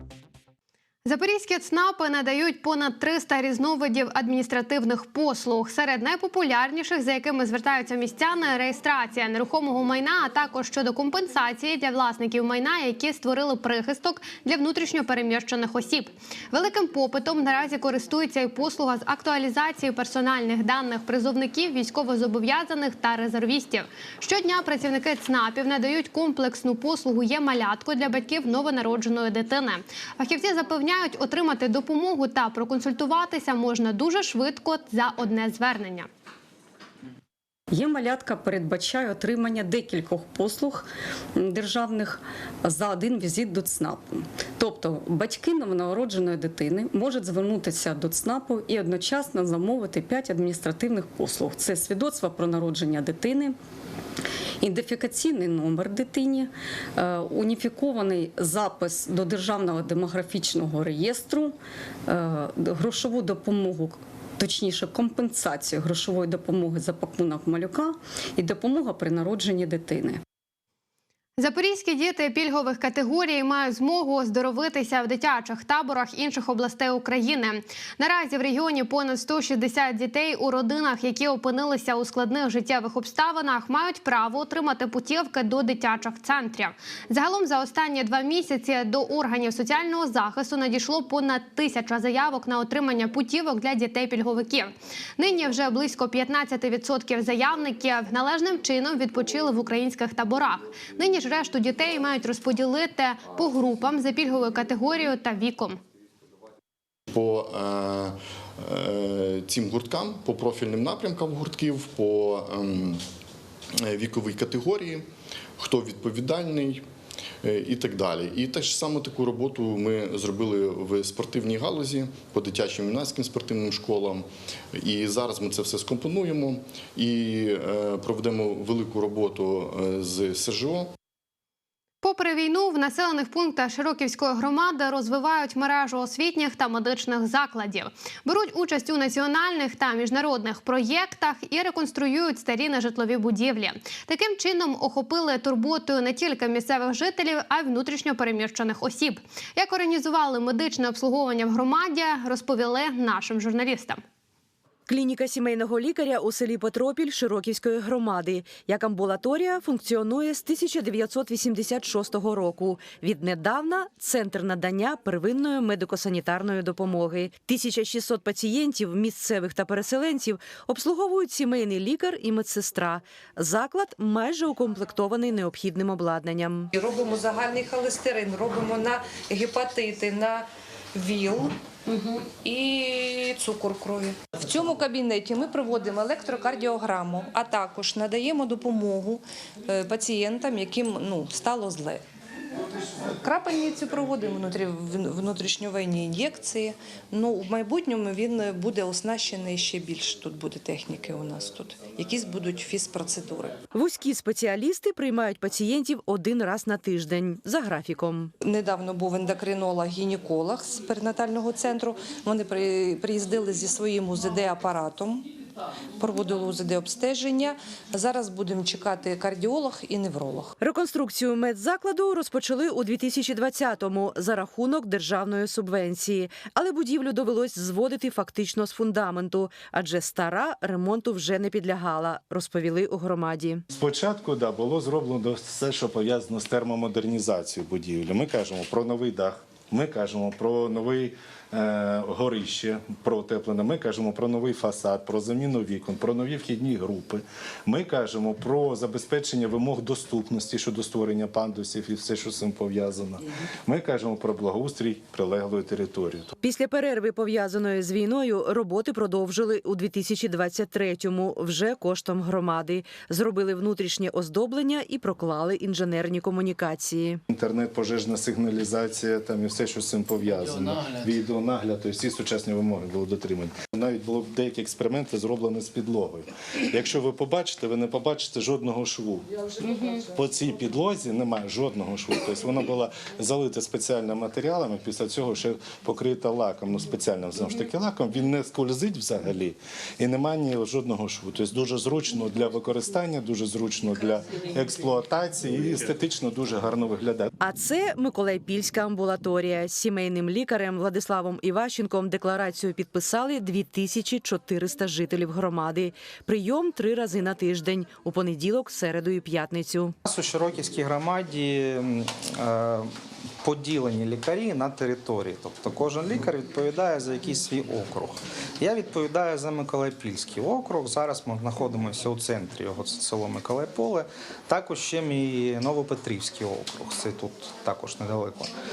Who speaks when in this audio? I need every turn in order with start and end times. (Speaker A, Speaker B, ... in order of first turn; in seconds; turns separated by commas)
Speaker A: 1.0-36.1, Speaker B: 37.7-53.5, Speaker B: 54.6-61.5, Speaker B: 62.1-70.2, Speaker A: 71.4-105.8, Speaker C: 107.1-113.0, Speaker C: 113.8-115.1, Speaker C: 115.6-116.8, Speaker C: 117.4-130.9, Speaker A: 132.0-154.0, Speaker D: 154.9-176.7, Speaker E: 176.8-181.5, Speaker E: 182.2-192.0, Speaker E: 193.2-203.6, Speaker D: 203.7-208.3, Speaker E: 208.4-215.2, Speaker E: 216.0-220.5, Speaker D: 220.6-233.6, Speaker F: 233.7-256.3, Speaker D: 256.4-267.2, Speaker F: 267.3-279.3, Speaker F: 280.1-297.3, Speaker D: 297.4-309.9, Speaker G: 310.0-328.5